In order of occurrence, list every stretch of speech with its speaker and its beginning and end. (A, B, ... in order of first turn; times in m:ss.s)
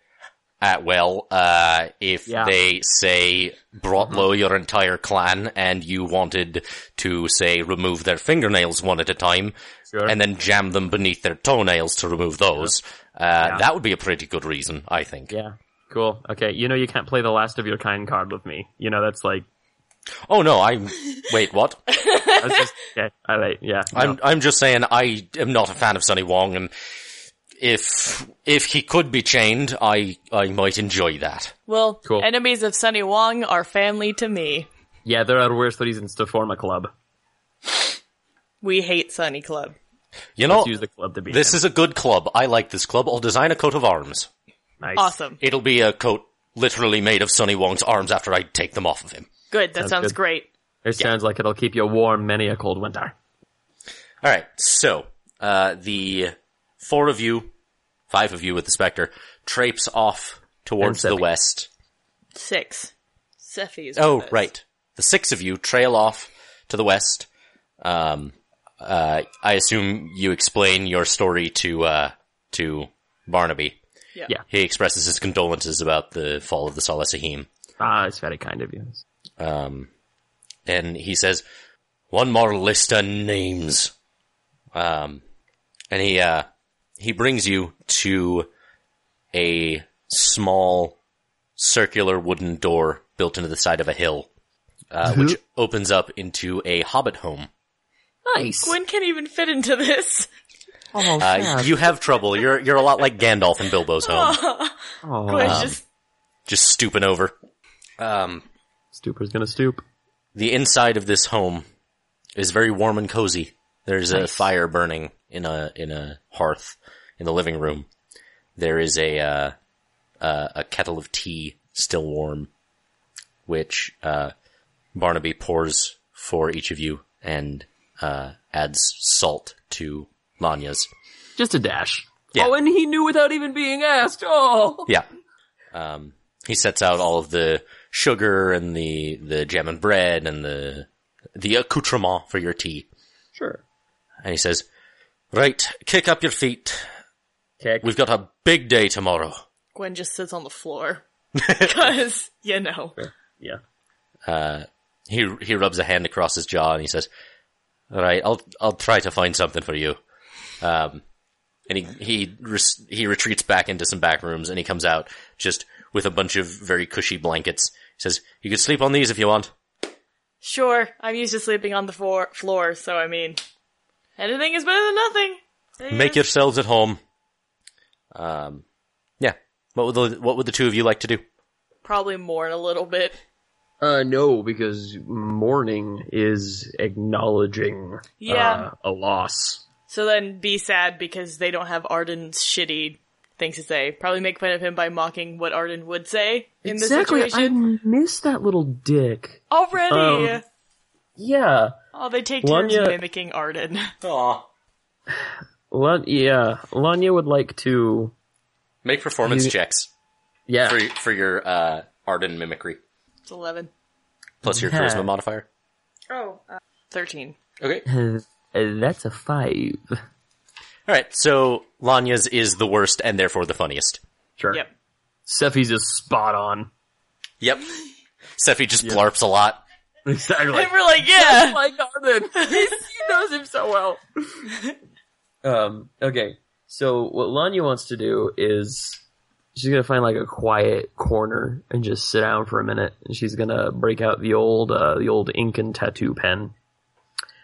0:00.6-0:09.5 A
0:02.3-0:02.5 B
0:10.0-0:15.3 A
0:15.3-0:19.4 B
0:20.3-0:21.8 A
0:21.9-0:22.6 C
0:22.4-0:24.2 B
0:23.9-0:26.7 A
0:27.6-0:31.5 A
0:31.7-0:34.7 C
0:35.0-0:36.9 B
0:38.6-0:39.7 C
0:40.4-0:40.7 A
0:40.5-0:41.6 B
0:41.3-0:44.3 A
0:44.8-0:45.1 B
0:45.0-0:45.4 C
0:45.4-0:49.3 A
0:49.5-0:50.5 C
0:49.8-0:50.1 B
0:50.8-0:53.1 B
0:54.2-0:57.5 A
0:58.1-1:01.7 A
1:00.8-1:01.2 B
1:02.3-1:04.4 C
1:04.0-1:07.3 A
1:07.8-1:13.8 A
1:14.5-1:17.5 A
1:17.8-1:19.0 B
1:19.4-1:19.9 A
1:20.6-1:21.4 A
1:22.1-1:23.9 A
1:24.7-1:25.2 A
1:25.9-1:26.4 A
1:27.0-1:28.5 A
1:29.3-1:31.0 A
1:31.6-1:34.3 A
1:34.9-1:37.5 A
1:35.0-1:35.4 B
1:38.2-1:38.8 B
1:38.6-1:40.3 C
1:40.9-1:41.7 B
1:41.2-1:44.4 A
1:44.0-1:45.8 C
1:45.0-1:45.7 B
1:45.4-1:45.8 A
1:46.5-1:47.3 A
1:48.0-1:48.4 A
1:48.9-1:49.8 B
1:50.3-1:51.6 A
1:52.4-1:57.9 A
1:54.1-1:54.5 B
1:58.6-1:59.5 A
2:00.2-2:02.5 A
2:03.4-2:04.3 A
2:04.9-2:10.9 A
2:11.4-2:14.9 B
2:15.7-2:22.9 A
2:23.4-2:23.6 B
2:24.2-2:24.6 A
2:25.3-2:26.8 A
2:27.6-2:27.9 B
2:27.8-2:29.4 A
2:29.7-2:33.0 C
2:31.4-2:31.7 A
2:33.0-2:33.6 B
2:34.2-2:37.1 A
2:37.9-2:40.0 A
2:40.6-2:41.0 A
2:41.7-2:49.5 A
2:50.4-2:53.4 C
2:54.2-2:56.2 C
2:55.9-2:57.0 A
2:58.1-2:58.6 A
2:59.2-3:01.2 A
3:01.8-3:03.2 C
3:03.8-3:09.6 B
3:08.2-3:08.7 C
3:09.9-3:17.6 C
3:16.6-3:20.4 B
3:19.5-3:20.4 C
3:21.2-3:21.7 B
3:21.9-3:23.9 C
3:22.4-3:23.0 B
3:24.0-3:24.5 A
3:25.1-3:28.1 B
3:28.8-3:29.9 A
3:29.2-3:29.5 B
3:30.5-3:30.8 B
3:30.6-3:32.8 A
3:33.3-3:33.7 C
3:34.4-3:35.4 A
3:34.4-3:35.1 B
3:36.1-3:37.4 C
3:37.6-3:37.8 A
3:37.8-3:40.0 B
3:40.9-3:44.0 A
3:44.4-3:44.6 B
3:45.3-3:46.7 B
3:47.4-3:47.7 A
3:48.4-3:49.6 A
3:50.0-3:54.5 B
3:50.5-3:51.6 C
3:52.4-3:52.8 C
3:55.4-3:59.0 B
3:59.5-4:06.5 B